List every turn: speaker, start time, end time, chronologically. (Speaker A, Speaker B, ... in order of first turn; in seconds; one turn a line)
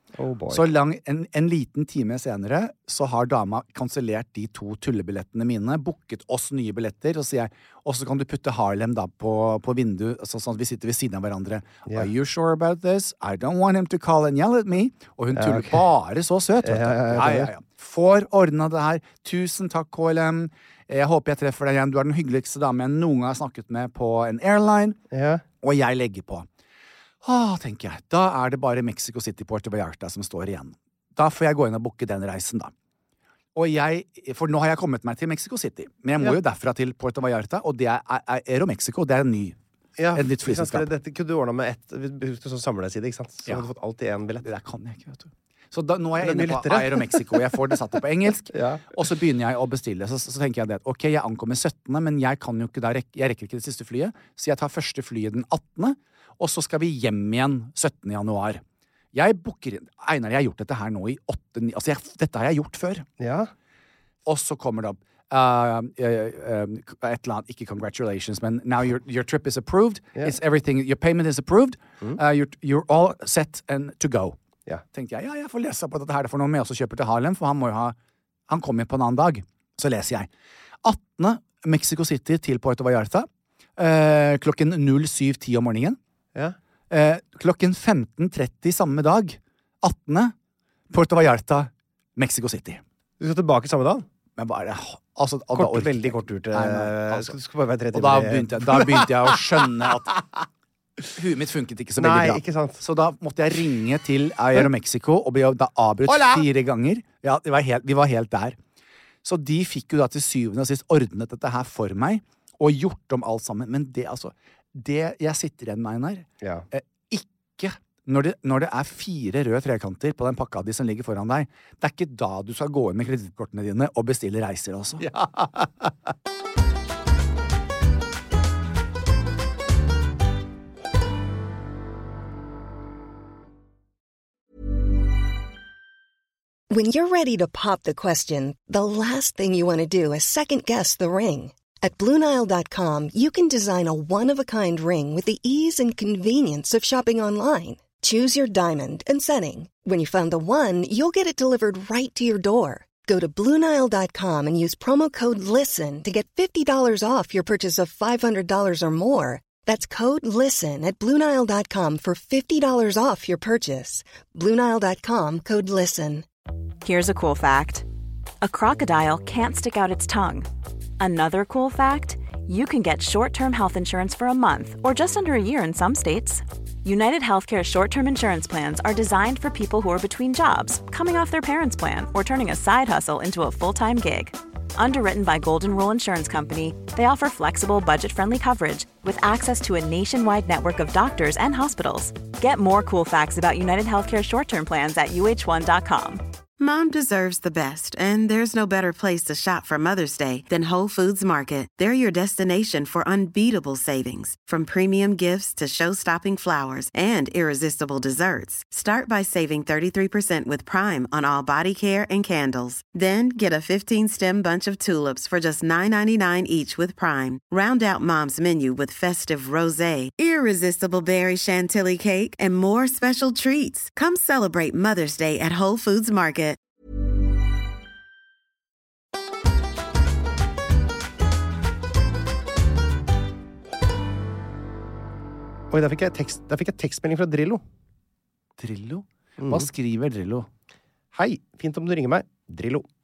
Speaker A: 0.2-0.7
Speaker B: 0.5-25.0
Speaker A: 15.3-15.8
Speaker A: 16.6-17.5
Speaker A: 25.1-25.4
Speaker B: 25.6-26.5
Speaker B: 27.2-32.7
Speaker B: 33.5-39.6
Speaker A: 40.0-44.5
Speaker B: 40.1-40.9
Speaker B: 44.4-58.6
Speaker A: 46.2-47.5
Speaker A: 48.5-48.9
Speaker B: 59.1-63.0
Speaker A: 63.2-63.5
Speaker B: 64.2-74.4
Speaker B: 74.9-77.9
Speaker B: 78.5-80.3
Speaker B: 80.8-86.0
Speaker B: 86.9-90.3
Speaker B: 90.9-92.8
Speaker A: 93.2-94.0
Speaker B: 94.4-97.3
Speaker A: 95.5-100.2
Speaker B: 97.9-100.1
Speaker B: 101.2-108.6
Speaker A: 102.0-102.8
Speaker A: 106.1-106.4
Speaker B: 109.2-125.0
Speaker A: 125.0-125.9
Speaker C: 136.7-166.2
Speaker D: 166.8-167.8
Speaker D: 168.4-170.5
Speaker D: 171.0-196.2
Speaker E: 196.6-226.6
Speaker A: 235.7-237.6
Speaker B: 238.6-240.5
Speaker A: 239.4-239.7
Speaker A: 241.1-242.8